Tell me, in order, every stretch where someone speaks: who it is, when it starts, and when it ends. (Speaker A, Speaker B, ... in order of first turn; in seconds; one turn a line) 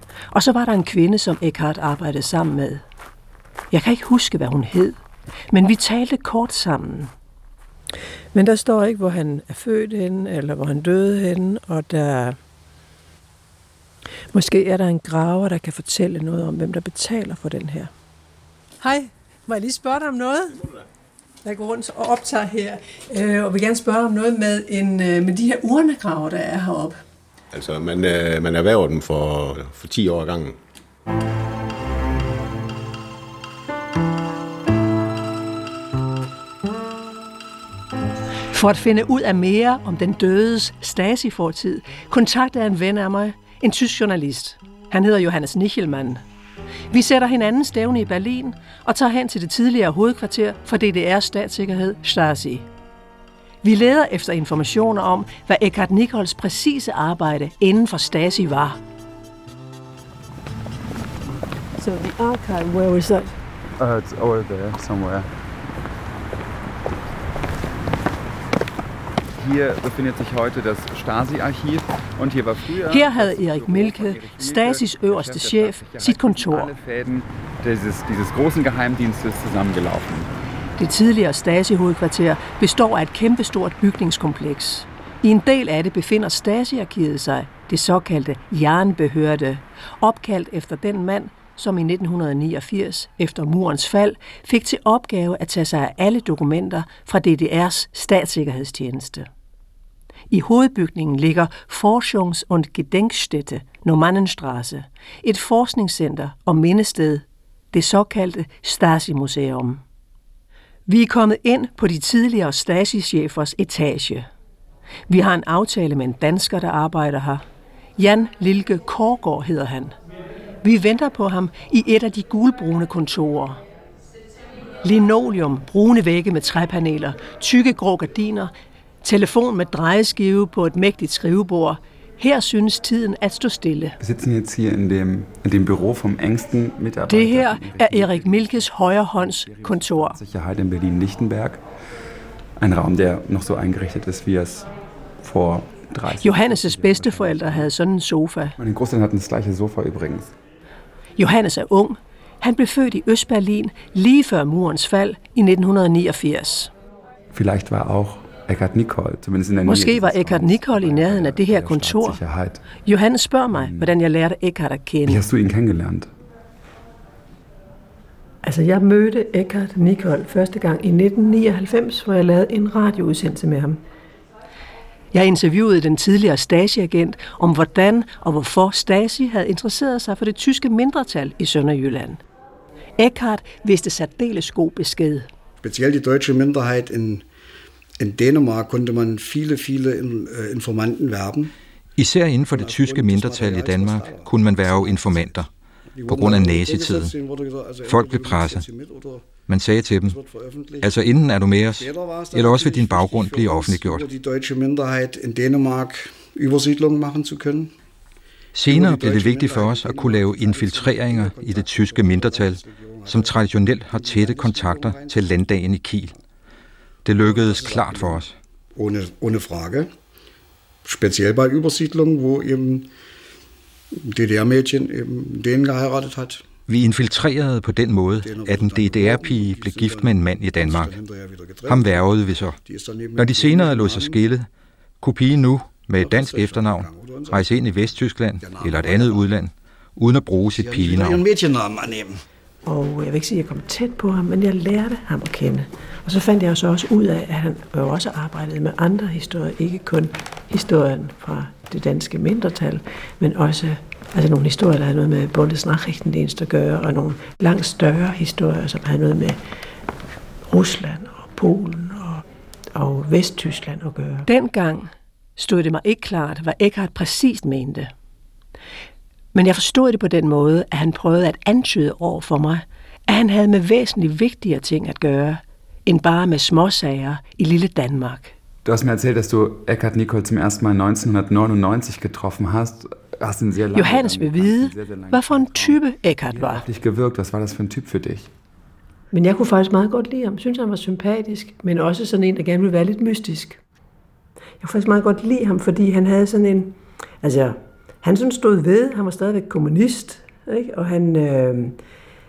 Speaker A: 0.3-2.8
Speaker A: 3.7-5.0
Speaker A: 5.5-7.1
Speaker B: 8.3-12.4
Speaker B: 14.3-17.9
Speaker B: 18.8-20.6
Speaker B: 21.4-27.0
Speaker C: 27.5-30.6
Speaker A: 38.5-46.2
Speaker A: 46.9-52.7
Speaker A: 53.6-58.8
Speaker B: 61.8-63.3
Speaker D: 63.8-65.3
Speaker D: 69.3-80.3
Speaker A: 72.9-76.7
Speaker A: 80.8-99.3
Speaker A: 100.3-109.8
Speaker A: 110.9-114.3
Speaker A: 115.1-117.4
Speaker A: 118.0-120.0
Speaker A: 120.6-123.6
Speaker A: 124.8-128.5
Speaker A: 129.0-134.0
Speaker D: 134.0-141.6
Speaker A: 137.1-140.2
Speaker D: 142.6-147.7
Speaker A: 146.2-148.6
Speaker D: 148.6-150.3
Speaker A: 151.2-156.7
Speaker D: 157.3-162.7
Speaker A: 159.7-162.2
Speaker A: 162.8-165.2
Speaker D: 163.5-163.9
Speaker D: 165.1-166.1
Speaker E: 168.4-173.8
Speaker B: 172.1-172.7
Speaker A: 175.1-182.2
Speaker A: 183.0-185.3
Speaker F: 185.6-187.2
Speaker F: 188.0-191.5
Speaker G: 192.0-195.5
Speaker F: 192.5-199.3
Speaker G: 196.1-197.1
Speaker G: 197.9-198.7
Speaker G: 199.5-200.2
Speaker F: 200.0-207.7
Speaker G: 200.8-204.1
Speaker G: 208.5-216.1
Speaker F: 208.7-215.5
Speaker G: 217.1-218.3
Speaker F: 217.2-218.2
Speaker F: 218.8-219.9
Speaker F: 220.8-222.9
Speaker F: 224.0-226.4
Speaker G: 226.7-231.0
Speaker F: 228.2-234.2
Speaker G: 231.7-232.6
Speaker G: 233.2-234.5
Speaker G: 235.0-241.2
Speaker F: 236.0-237.9
Speaker F: 238.4-239.3
Speaker F: 240.6-242.2
Speaker E: 242.7-259.4
Speaker E: 260.5-264.3
Speaker A: 264.3-267.9
Speaker A: 269.3-278.3
Speaker D: 278.6-288.3
Speaker A: 283.7-286.6
Speaker E: 289.1-293.6
Speaker E: 294.6-301.8